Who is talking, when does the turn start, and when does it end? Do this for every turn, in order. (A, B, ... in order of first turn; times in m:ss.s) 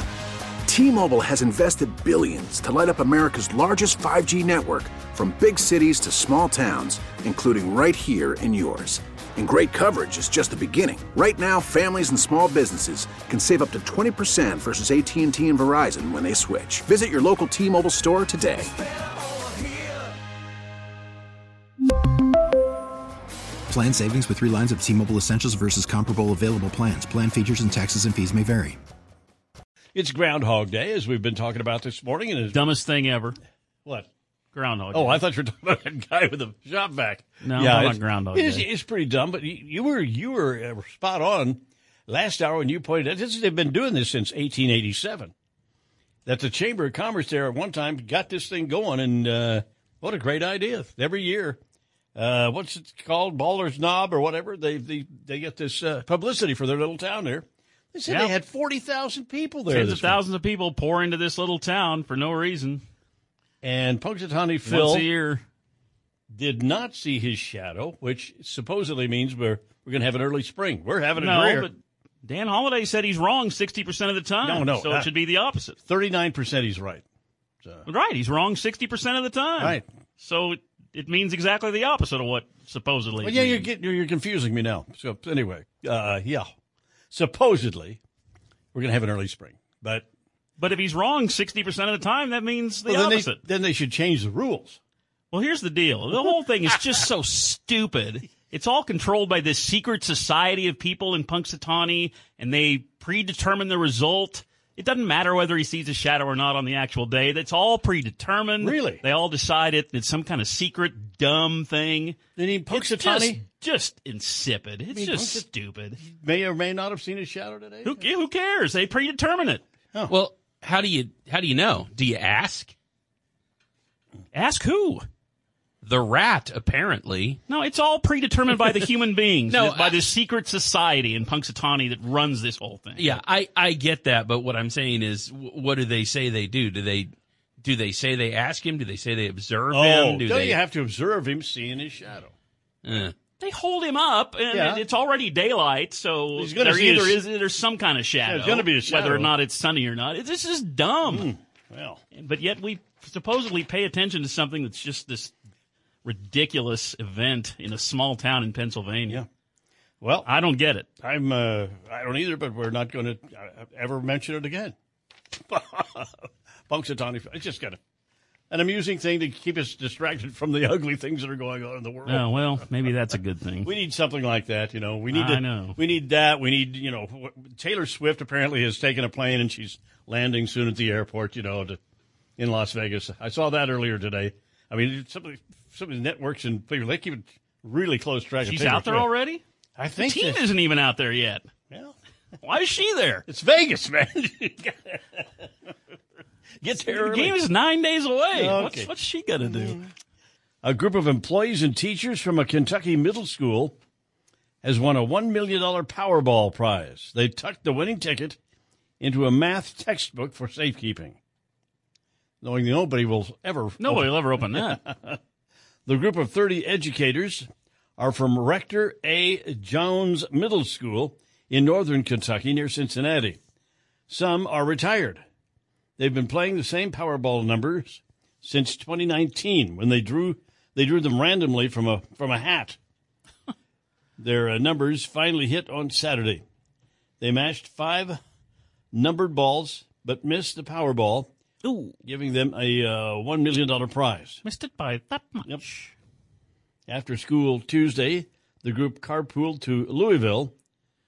0:00.7-0:18.7 A
0:23.7-0:28.8 B
0:29.9-0:32.6 C
0:32.5-0:33.4 D
0:34.5-0:35.2 D
0:34.9-0:45.3 C
0:37.4-0:38.7 D
0:46.3-0:51.6 C
0:52.2-1:00.2 C
0:59.7-1:02.8 D
1:03.6-1:05.1 C
1:04.6-1:05.4 D
1:06.3-1:11.7 C
1:11.2-1:15.8 D
1:14.4-1:15.1 C
1:15.9-1:17.0 C
1:17.9-1:23.7 D
1:19.6-1:19.8 C
1:23.2-1:26.5 C
1:27.1-1:28.0 C
1:28.7-1:30.1 C
1:30.6-1:33.4 D
1:32.9-1:34.8 C
1:35.3-1:56.0 D
1:48.6-1:49.0 C
1:52.4-1:53.4 C
1:54.9-1:55.5 C
1:56.0-1:58.0 C
1:57.8-1:59.6 D
2:00.1-2:02.7 E
2:04.3-2:05.1 D
2:05.8-2:07.4 E
2:07.5-2:13.2 D
2:09.5-2:10.0 E
2:13.0-2:20.6 E
2:19.7-2:22.3 C
2:22.8-2:23.1 E
2:22.9-2:31.3 D
2:24.5-2:24.8 C
2:26.4-2:27.2 C
2:28.2-2:29.3 C
2:31.0-2:32.0 C
2:32.1-2:35.3 D
2:36.0-2:39.2 D
2:40.0-2:40.3 C
2:40.2-2:40.9 D
2:41.0-2:44.7 C
2:45.5-2:47.8 C
2:48.5-2:52.6 C
2:52.1-2:53.7 D
2:53.6-3:01.8 C
2:55.1-2:55.8 D
3:02.4-3:09.1 C
3:08.4-3:09.4 D
3:09.8-3:10.4 C
3:10.0-3:11.5 D
3:11.7-3:12.0 C
3:12.4-3:13.2 D
3:13.3-3:15.7 C
3:16.6-3:17.4 C
3:16.9-3:19.8 D
3:18.3-3:19.9 C
3:20.6-3:23.8 C
3:24.6-3:28.4 C
3:29.0-3:31.2 C
3:32.4-3:35.2 C
3:33.8-3:34.8 D
3:35.9-3:37.5 C
3:38.0-3:43.4 C
3:44.1-3:45.2 C
3:46.0-3:52.8 C
3:54.2-3:56.4 C
3:57.2-3:58.2 C
3:58.9-4:01.3 C
4:01.6-4:01.9 D
4:02.0-4:04.4 C
4:04.4-4:05.9 D
4:06.9-4:10.5 C